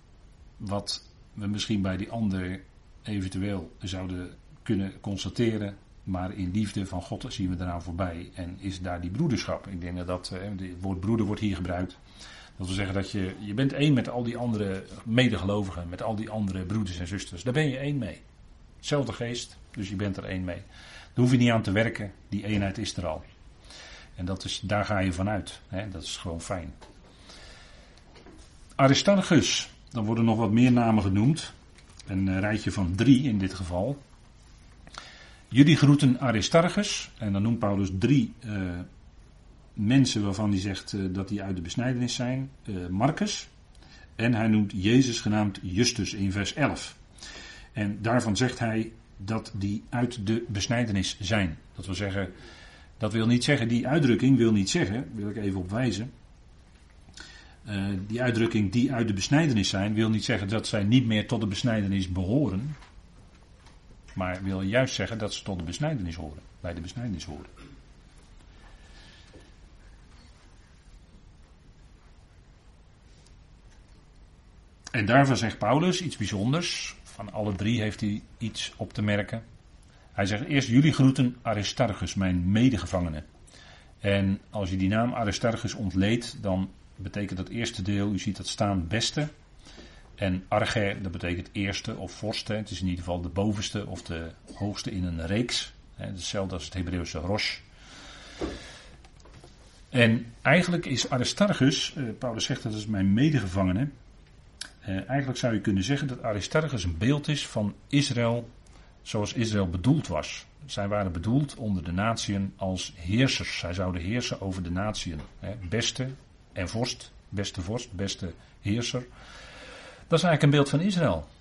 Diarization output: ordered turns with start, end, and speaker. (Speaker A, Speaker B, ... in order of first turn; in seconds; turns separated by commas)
Speaker A: 0.6-12.0, Speaker A: 12.6-18.2, Speaker A: 18.8-23.2, Speaker A: 24.1-26.7, Speaker A: 28.8-31.5, Speaker A: 32.1-34.0, Speaker A: 35.5-38.9, Speaker A: 39.8-43.5, Speaker A: 44.2-47.0, Speaker A: 47.7-52.3, Speaker A: 53.0-56.1, Speaker A: 57.6-62.8, Speaker A: 64.1-67.5, Speaker A: 74.9-79.4, Speaker A: 80.1-83.2, Speaker A: 84.0-89.3, Speaker A: 90.2-97.6, Speaker A: 99.9-103.9, Speaker A: 104.8-108.5, Speaker A: 109.0-119.1, Speaker A: 120.1-121.3